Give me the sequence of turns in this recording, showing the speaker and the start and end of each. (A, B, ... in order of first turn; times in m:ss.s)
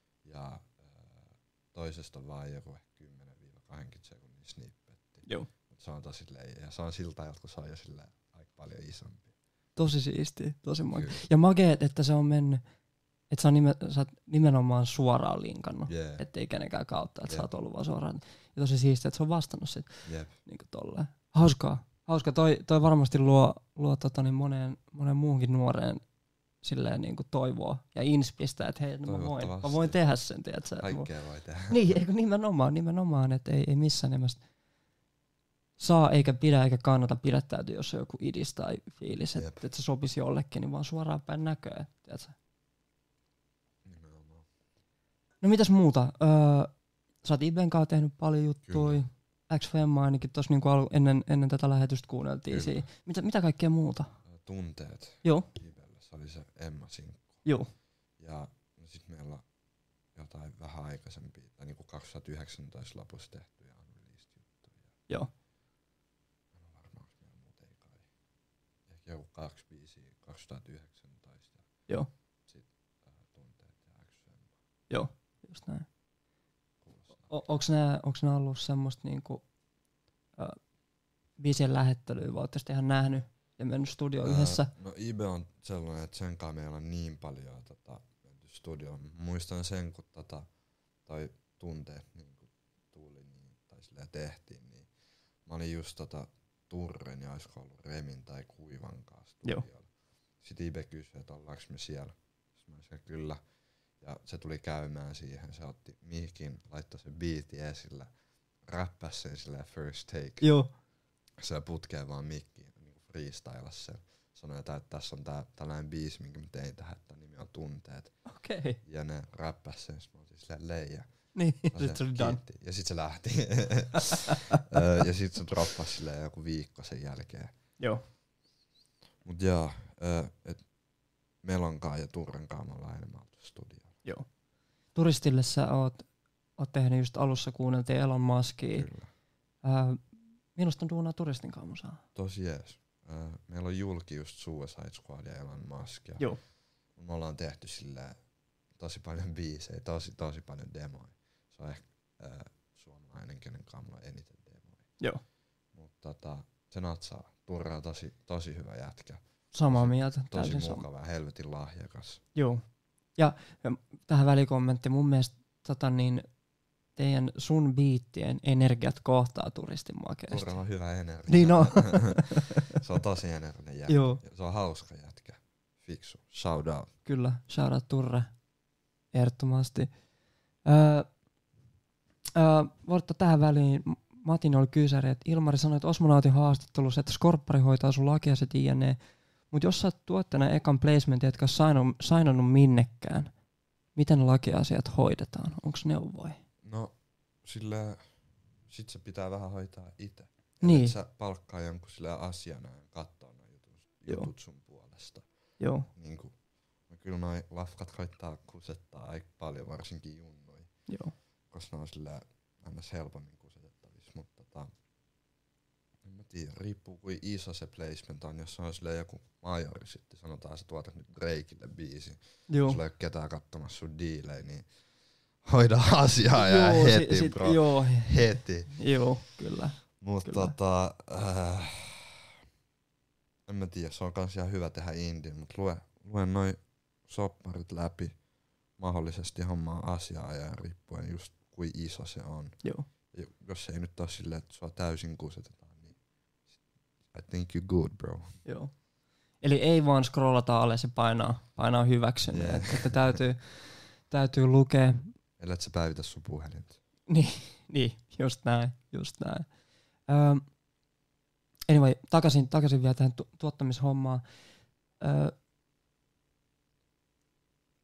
0:00.2-0:09.3 A
0:09.8-0:12.6 B
0:10.9-0:11.2 A
0:13.3-0:26.0 B
0:15.9-0:16.2 A
0:20.0-0:20.3 A
0:26.6-0:31.1 B
0:29.0-0:30.0 A
0:30.8-0:31.9 A
0:31.7-0:34.4 B
0:35.8-0:42.3 B
0:39.3-0:39.6 A
0:43.8-0:44.4 A
0:45.4-0:46.7 B
0:47.2-0:54.1 B
0:48.6-0:49.0 A
0:52.5-0:52.9 A
0:54.3-0:57.4 A
0:57.4-0:57.7 B
0:58.2-0:59.4 A
1:00.1-1:04.9 A
1:06.5-1:08.0 A
1:08.9-1:11.7 A
1:12.5-1:14.5 A
1:14.9-1:15.9 B
1:16.8-1:17.3 A
1:17.3-1:19.4 B
1:21.4-1:24.7 B
1:24.2-1:30.5 A
1:31.0-1:34.9 A
1:35.4-1:39.9 A
1:40.4-1:43.4 A
1:44.0-1:48.1 A
1:48.7-1:50.4 A
1:50.4-1:50.7 B
1:51.4-1:58.1 A
1:58.3-1:58.8 B
1:58.8-2:01.1 A
2:01.3-2:02.4 B
2:01.7-2:07.5 A
2:04.0-2:04.6 B
2:09.2-2:10.6 A
2:11.4-2:13.9 A
2:14.9-2:16.0 B
2:16.6-2:18.9 B
2:18.7-2:19.1 A
2:19.6-2:20.0 B
2:20.6-2:22.0 B
2:22.1-2:26.3 A
2:27.0-2:28.2 A
2:28.8-2:34.9 A
2:35.7-2:42.2 A
2:39.5-2:40.8 B
2:42.4-2:42.6 B
2:43.2-2:46.3 B
2:47.0-2:50.5 B
2:50.3-2:56.9 A
2:51.3-2:52.8 B
2:53.9-2:54.2 B
2:57.0-2:58.3 B
2:59.1-2:59.9 B
3:00.6-3:01.1 B
3:02.3-3:09.0 B
3:09.5-3:13.3 B
3:14.0-3:16.4 B
3:16.6-3:16.9 A
3:17.4-3:18.0 A
3:18.7-3:25.3 A
3:20.6-3:20.9 B
3:25.6-3:25.9 B
3:25.9-3:26.3 A
3:26.9-3:30.7 A
3:30.9-3:31.1 B
3:31.5-3:34.7 A
3:36.0-3:44.6 A
3:42.5-3:42.8 B
3:45.4-3:48.8 A
3:46.3-3:50.6 B
3:50.0-3:52.4 A
3:53.4-3:58.1 A
3:58.8-4:02.6 A
4:03.1-4:06.0 A
4:07.1-4:08.4 A
4:08.4-4:08.7 B
4:09.4-4:15.1 B
4:12.3-4:13.2 A
4:15.4-4:16.8 A
4:17.1-4:19.5 B
4:20.1-4:20.4 B
4:21.7-4:24.2 B
4:25.0-4:25.3 B